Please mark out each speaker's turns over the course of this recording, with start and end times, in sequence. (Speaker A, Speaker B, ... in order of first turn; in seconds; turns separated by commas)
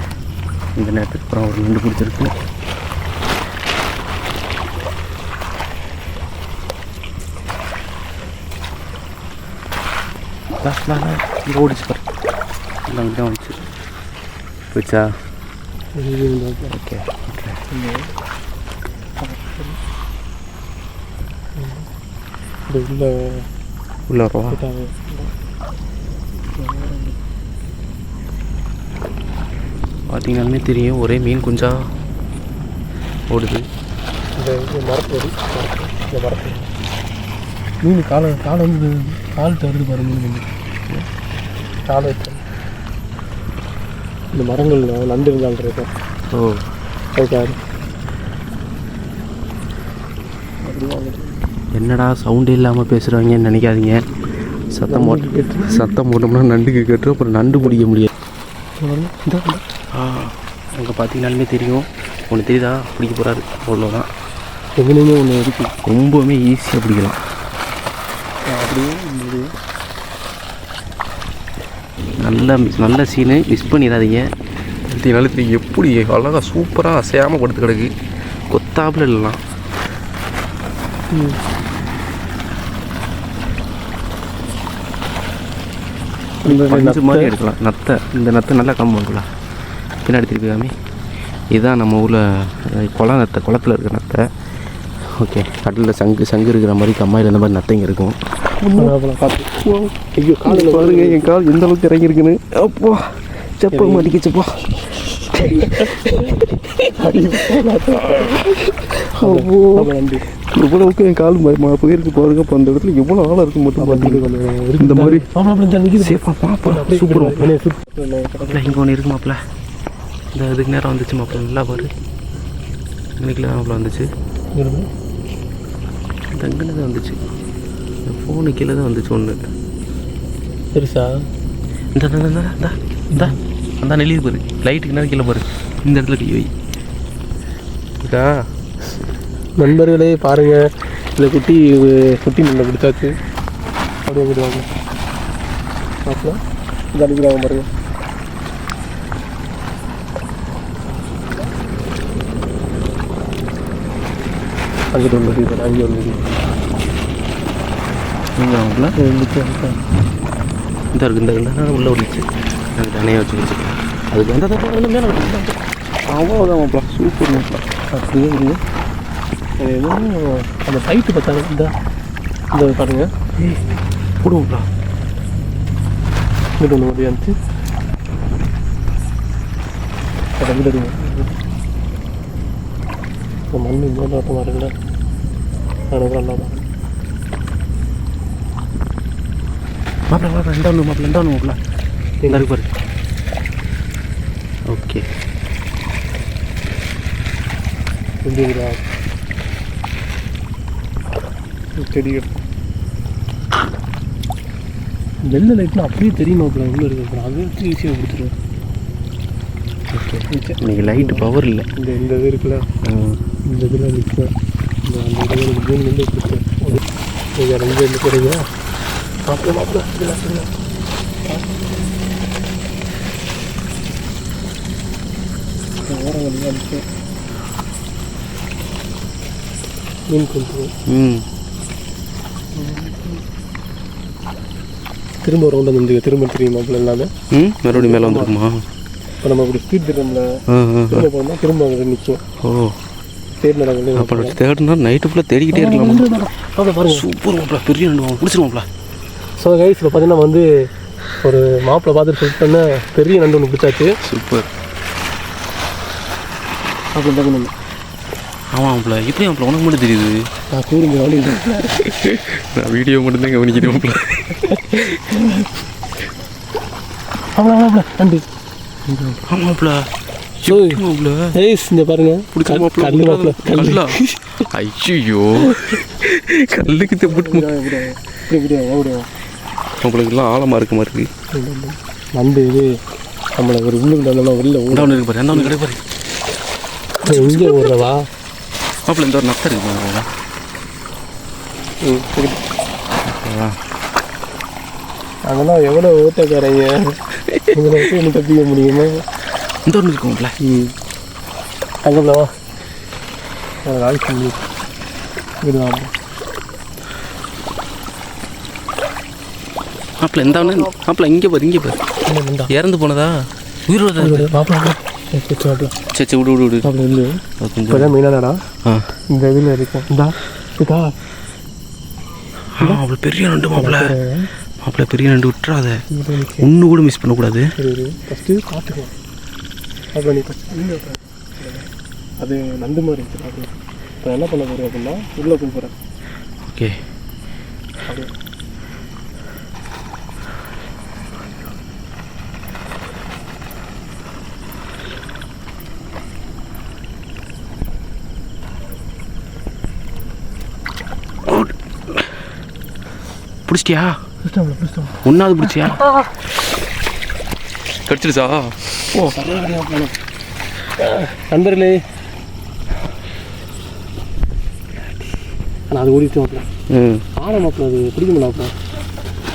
Speaker A: 0.8-2.3, Speaker A: 10.6-12.0, Speaker A: 12.9-13.6, Speaker A: 14.7-15.1, Speaker B: 15.9-16.7, Speaker A: 16.7-17.6, Speaker B: 17.7-18.1, Speaker B: 19.2-19.8, Speaker B: 21.6-21.9, Speaker B: 22.7-23.4, Speaker A: 24.1-24.6, Speaker B: 24.5-25.3, Speaker B: 26.5-27.2, Speaker A: 30.1-31.8, Speaker A: 33.3-33.6, Speaker B: 34.4-36.7, Speaker B: 37.8-40.5, Speaker B: 41.9-42.4, Speaker B: 44.3-45.9, Speaker A: 46.3-46.6, Speaker B: 47.1-47.6, Speaker B: 50.6-51.4, Speaker A: 51.8-54.0, Speaker A: 54.7-58.1, Speaker B: 54.9-55.8, Speaker B: 57.5-57.8, Speaker B: 58.8-59.6, Speaker A: 59.9-64.1, Speaker B: 64.8-65.7, Speaker A: 65.8-67.2, Speaker B: 68.5-69.5, Speaker A: 72.2-74.2, Speaker A: 74.9-77.9, Speaker A: 78.5-79.4, Speaker B: 81.1-81.4, Speaker B: 86.4-87.3, Speaker A: 86.5-89.2, Speaker A: 90.0-90.7, Speaker A: 91.5-94.2, Speaker A: 95.1-98.9, Speaker B: 98.7-99.6, Speaker A: 99.6-99.9, Speaker B: 100.2-101.3, Speaker A: 100.5-106.9, Speaker B: 103.7-104.1, Speaker B: 105.5-106.1, Speaker B: 106.9-108.4, Speaker A: 108.1-109.8, Speaker B: 109.2-110.2, Speaker A: 110.5-115.2, Speaker B: 113.8-118.8, Speaker A: 116.0-117.5, Speaker A: 118.5-119.4, Speaker A: 120.3-121.9, Speaker A: 123.2-124.1, Speaker B: 124.5-124.9, Speaker A: 126.3-127.2, Speaker A: 128.1-129.4, Speaker B: 130.7-131.1, Speaker A: 131.9-136.5, Speaker A: 138.0-138.3, Speaker B: 139.6-140.6, Speaker B: 141.2-143.1, Speaker B: 144.1-144.7, Speaker B: 146.1-146.4, Speaker B: 146.9-147.7, Speaker B: 154.9-156.3, Speaker A: 155.0-155.3, Speaker A: 158.4-158.9, Speaker B: 158.9-159.8, Speaker A: 160.9-167.6, Speaker B: 167.9-168.6, Speaker B: 169.6-171.7, Speaker B: 172.5-173.1, Speaker A: 174.2-174.7, Speaker B: 176.6-177.4, Speaker B: 180.4-181.3, Speaker B: 183.5-184.7, Speaker B: 185.9-186.7, Speaker A: 190.1-191.6, Speaker A: 192.3-192.7, Speaker A: 194.7-195.0, Speaker B: 198.2-198.8, Speaker B: 201.8-202.3, Speaker B: 205.2-208.3, Speaker A: 209.9-211.7, Speaker B: 210.3-211.2, Speaker B: 211.8-212.7, Speaker A: 212.8-213.2, Speaker B: 213.4-214.3, Speaker B: 214.8-216.8, Speaker B: 217.4-218.4, Speaker B: 219.3-220.5, Speaker B: 225.9-226.8, Speaker B: 230.1-230.7, Speaker A: 230.9-231.2, Speaker B: 232.5-233.2, Speaker B: 235.2-237.1, Speaker A: 237.3-238.6, Speaker B: 237.7-238.3, Speaker B: 239.2-240.3, Speaker A: 240.5-241.1, Speaker B: 240.9-242.2, Speaker A: 242.4-242.8, Speaker B: 243.4-244.4, Speaker A: 243.9-246.1, Speaker B: 245.5-247.0, Speaker A: 246.8-248.7, Speaker B: 249.4-250.4, Speaker B: 251.2-253.9, Speaker A: 254.0-254.5, Speaker B: 256.9-257.5, Speaker A: 258.5-260.2, Speaker B: 260.5-261.9, Speaker A: 261.8-264.4, Speaker B: 264.4-265.5, Speaker B: 267.4-268.2, Speaker B: 268.9-269.2, Speaker A: 269.2-269.9, Speaker A: 270.4-271.3, Speaker B: 270.4-270.8, Speaker B: 271.3-274.1, Speaker A: 272.3-277.7, Speaker B: 276.6-279.1, Speaker A: 279.8-281.1, Speaker B: 281.3-282.7, Speaker B: 283.4-285.5, Speaker A: 284.7-285.8, Speaker B: 287.0-288.0, Speaker A: 287.1-287.6, Speaker A: 288.9-290.1, Speaker B: 291.8-292.4, Speaker A: 293.1-293.6, Speaker B: 295.3-297.0, Speaker A: 297.2-297.5, Speaker B: 297.5-299.0, Speaker A: 299.7-300.3, Speaker B: 300.4-300.7, Speaker B: 301.9-302.3, Speaker B: 303.6-304.4, Speaker B: 305.4-305.9, Speaker A: 310.0-311.8, Speaker B: 312.1-312.5, Speaker A: 312.5-314.3, Speaker B: 314.0-315.7, Speaker A: 315.9-316.7, Speaker B: 316.6-318.4, Speaker A: 317.4-317.9, Speaker B: 319.1-320.9, Speaker A: 322.6-323.9, Speaker B: 323.6-324.3, Speaker A: 324.6-325.8, Speaker B: 325.9-326.5, Speaker A: 326.4-327.5, Speaker B: 327.6-328.9, Speaker B: 329.9-331.6, Speaker B: 332.2-335.7, Speaker A: 336.4-336.8, Speaker B: 337.9-338.1, Speaker A: 351.2-352.1, Speaker A: 353.5-354.0, Speaker B: 354.2-356.1, Speaker A: 355.0-355.9, Speaker A: 357.8-359.2, Speaker B: 358.9-359.9, Speaker B: 360.8-361.8, Speaker B: 365.7-366.5, Speaker A: 366.7-367.0, Speaker B: 367.2-368.5